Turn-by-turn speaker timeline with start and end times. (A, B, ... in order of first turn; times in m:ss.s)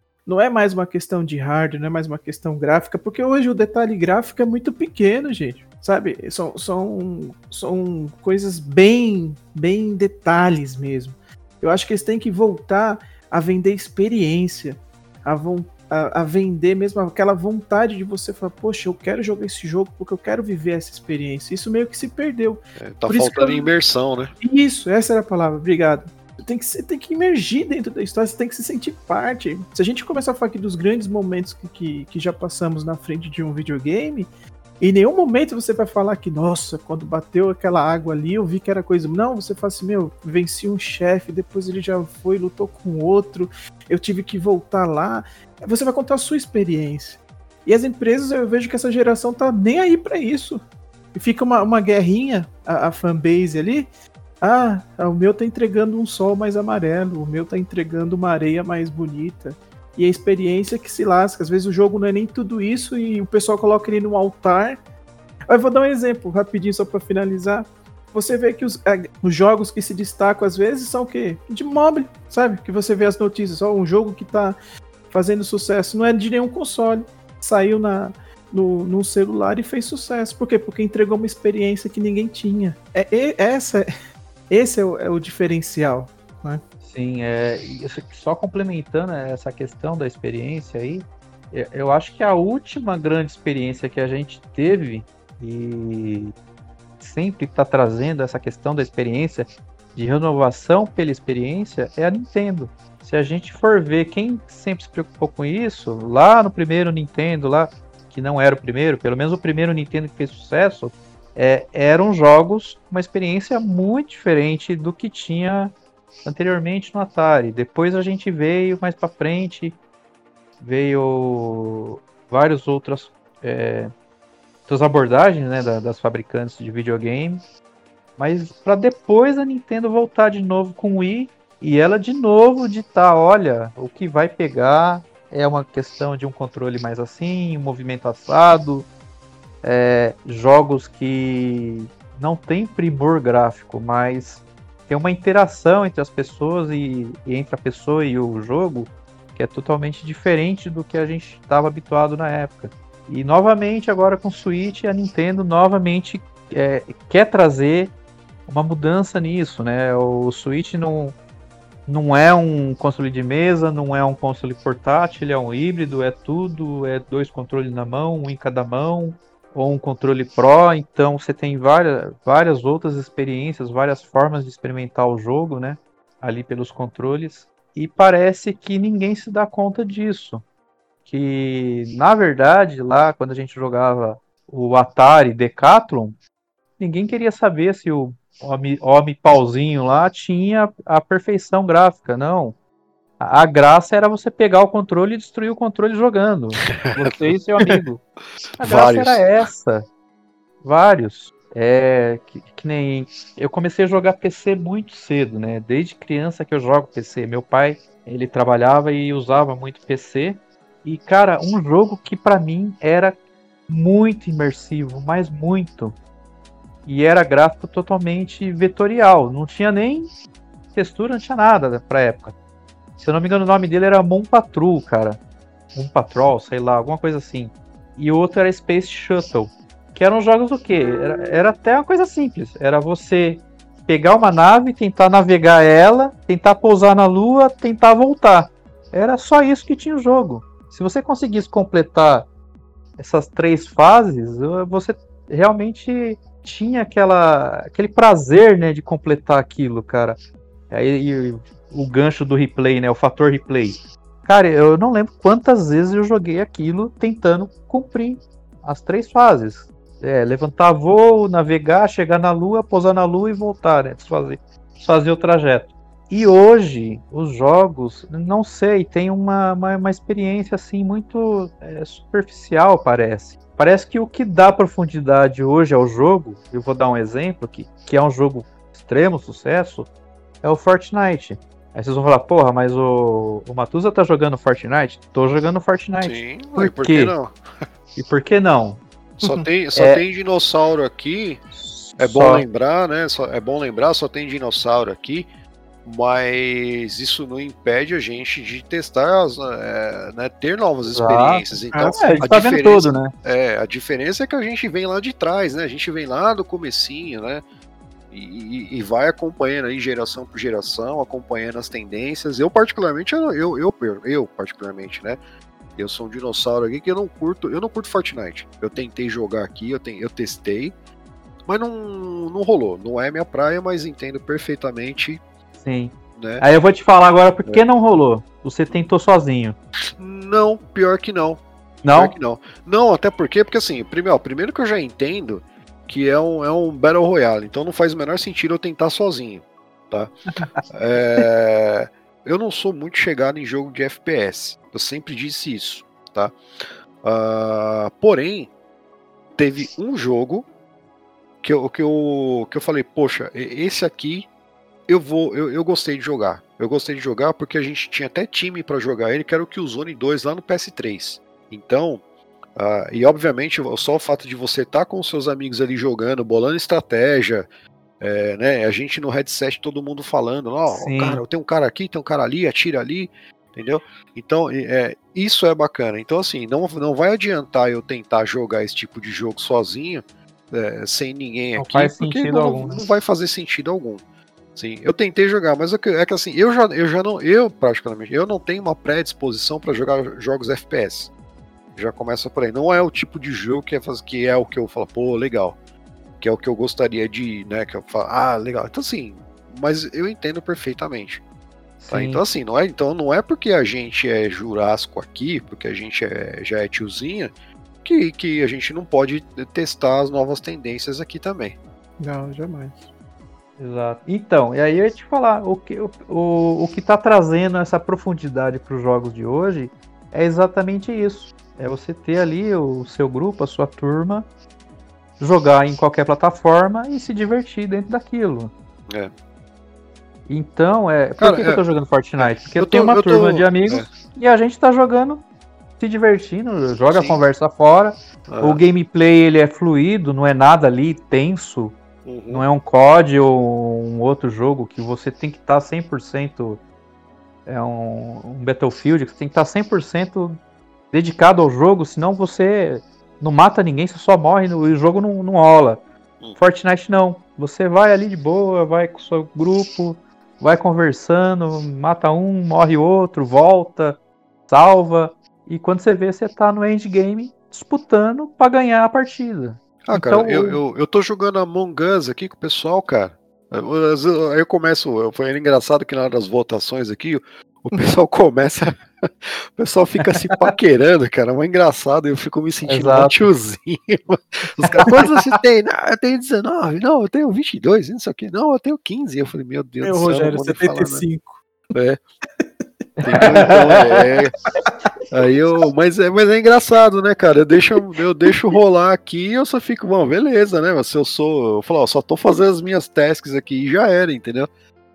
0:00.2-0:23.7 A
0:22.8-0:24.3 B
0:24.4-0:50.6 A
0:51.1-0:53.9 A
0:54.4-1:04.8 A
1:05.5-1:14.6 A
1:15.1-1:23.9 A
1:24.5-1:26.6 A
1:26.8-1:36.3 C
1:37.0-1:55.7 C
1:56.2-1:59.8 C
2:00.6-2:03.9 C
2:04.7-2:07.4 C
2:08.2-2:18.9 C
2:19.6-2:37.9 C
2:38.5-2:41.2 C
2:41.9-3:00.4 C
3:01.0-3:06.2 C
3:06.8-3:12.5 C
3:13.2-3:18.0 C
3:16.8-3:17.8 B
3:18.6-3:19.2 B
3:18.6-3:19.8 C
3:20.6-3:33.2 C
3:33.7-3:36.0 C
3:36.8-3:40.1 C
3:40.7-3:42.3 C
3:43.0-3:45.2 C
3:45.7-4:02.3 C
4:03.0-4:10.2 C
4:10.7-4:39.9 C
4:40.4-4:47.1 C
4:46.0-4:47.4 B
4:47.9-4:48.8 C
4:49.2-4:51.4 B
4:49.7-4:50.0 C
4:51.5-4:52.4 C
4:52.0-4:55.3 B
4:55.8-5:07.4 B
5:00.9-5:03.1 C
5:01.7-5:02.2 A
5:08.1-5:15.2 B
5:15.8-5:20.7 B
5:21.4-5:25.2 B
5:25.6-5:29.6 C
5:26.2-5:26.4 B
5:30.0-5:31.4 B
5:31.8-5:32.1 C
5:31.9-5:40.1 B
5:40.7-5:46.4 B
5:47.0-5:48.5 B
5:49.4-5:50.4 B
5:51.4-5:54.3 B
5:54.9-6:02.0 B
6:02.6-6:07.5 B
6:08.0-6:24.0 B
6:10.7-6:11.2 C
6:21.6-6:22.8 C
6:24.5-6:31.1 B
6:31.8-6:35.6 B
6:36.2-6:41.2 B
6:41.8-6:42.2 C
6:41.9-6:47.3 B
6:47.8-6:51.6 B
6:52.0-6:52.9 A
6:53.6-7:04.3 C
7:05.2-7:08.5 C
7:10.3-7:15.2 C
7:11.2-7:11.6 B
7:12.2-7:13.9 B
7:15.8-7:21.8 C
7:16.9-7:17.2 B
7:18.3-7:18.6 B
7:22.0-7:22.4 B
7:22.3-7:26.6 C
7:27.4-7:30.4 C
7:30.9-7:35.8 C
7:36.4-7:50.6 C
7:49.8-8:11.0 B
8:00.2-8:00.5 C
8:02.7-8:03.3 C
8:09.8-8:11.4 A
8:11.7-8:12.0 B
8:13.0-8:14.0 C
8:13.0-8:14.3 B
8:15.1-8:24.5 B